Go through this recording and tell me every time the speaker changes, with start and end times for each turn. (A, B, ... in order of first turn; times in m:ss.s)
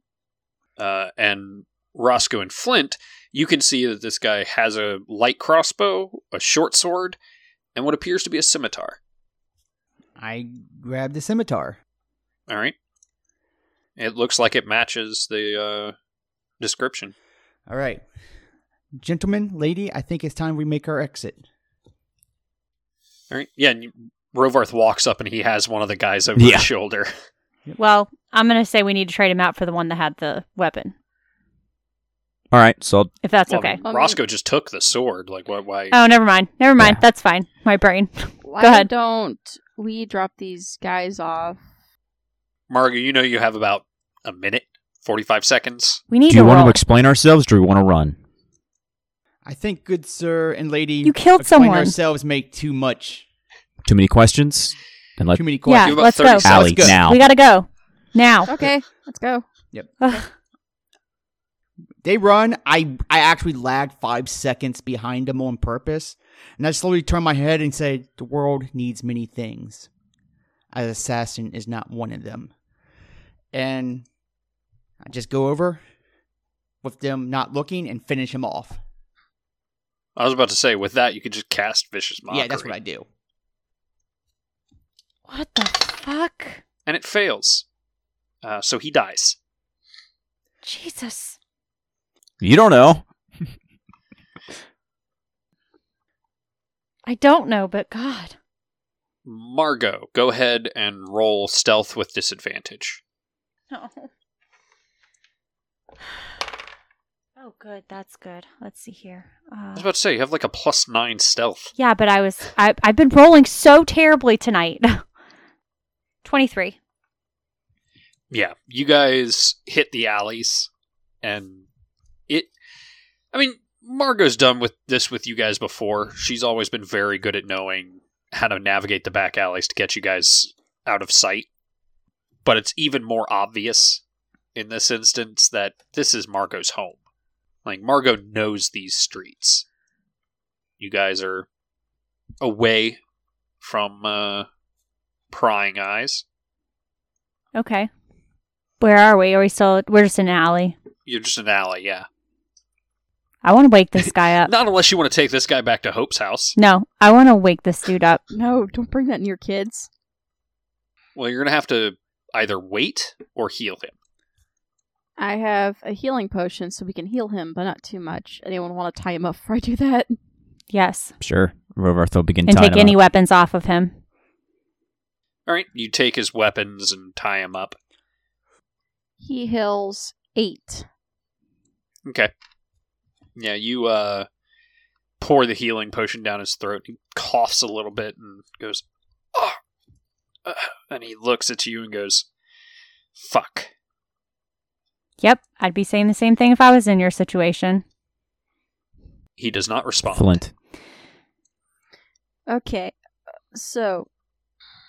0:00.8-0:07.2 A
0:07.8-0:09.0 A
0:10.2-0:11.8 B
0:12.5-0:12.8 A
0:14.0-0:16.0 A
0:16.6-0:17.1 A
0:17.7-0:18.0 B
0:19.0-0:21.4 B
0:23.3-0:27.1 A
0:26.4-0:26.7 C
0:27.8-0:31.0 D
0:32.5-0:33.1 C
0:33.2-0:33.8 D
0:33.5-0:36.0 A
0:33.8-0:34.2 E
0:35.9-0:38.9 D
0:38.4-0:41.6 E
0:42.7-0:46.0 A
0:46.1-0:46.8 D
0:46.3-0:48.2 C
0:49.4-0:53.3 B
0:51.0-0:52.0 D
0:53.8-0:55.4 C
0:55.4-0:57.0 B
0:55.7-0:58.5 D
0:55.8-0:56.7 A
0:56.4-0:57.2 C
0:58.5-0:59.4 E
0:59.7-1:00.0 B
1:00.0-1:00.3 D
1:02.0-1:09.9 B
1:10.7-1:12.5 B
1:13.5-1:14.1 B
1:15.0-1:15.8 B
1:16.8-1:18.8 B
1:20.2-1:22.7 A
1:22.3-1:23.1 B
1:25.3-1:26.6 D
1:26.9-1:27.6 A
1:28.4-1:29.4 A
1:30.6-1:31.4 D
1:32.4-1:33.0 C
1:37.1-1:38.4 D
1:39.2-1:43.0 A
1:43.7-1:44.1 D
1:47.4-1:49.9 D
1:49.8-1:51.7 A
1:51.8-1:55.0 D
1:56.2-1:56.8 D
1:58.3-2:00.7 A
2:01.2-2:01.7 A
2:03.3-2:11.5 A
2:12.4-2:14.0 A
2:14.6-2:17.0 A
2:17.6-2:19.6 A
2:20.8-2:21.5 A
2:22.4-2:23.0 A
2:23.6-2:24.5 A
2:25.3-2:26.2 A
2:27.6-2:27.9 D
2:28.8-2:30.8 D
2:31.1-2:32.1 A
2:33.4-2:34.5 D
2:34.4-2:36.6 A
2:36.6-2:38.2 D
2:38.3-2:39.9 E
2:41.2-2:43.9 A
2:45.2-2:50.1 E
2:50.7-2:51.1 D
2:51.2-2:53.0 C
2:52.5-2:54.0 D
2:55.5-2:57.8 A
2:59.2-3:00.9 E
3:02.0-3:02.3 A
3:03.4-3:04.3 A
3:05.2-3:08.8 A
3:10.4-3:12.3 A
3:13.2-3:13.7 A
3:15.2-3:17.8 D
3:19.4-3:20.4 A
3:20.1-3:20.5 C
3:22.5-3:23.0 E
3:23.5-3:24.1 E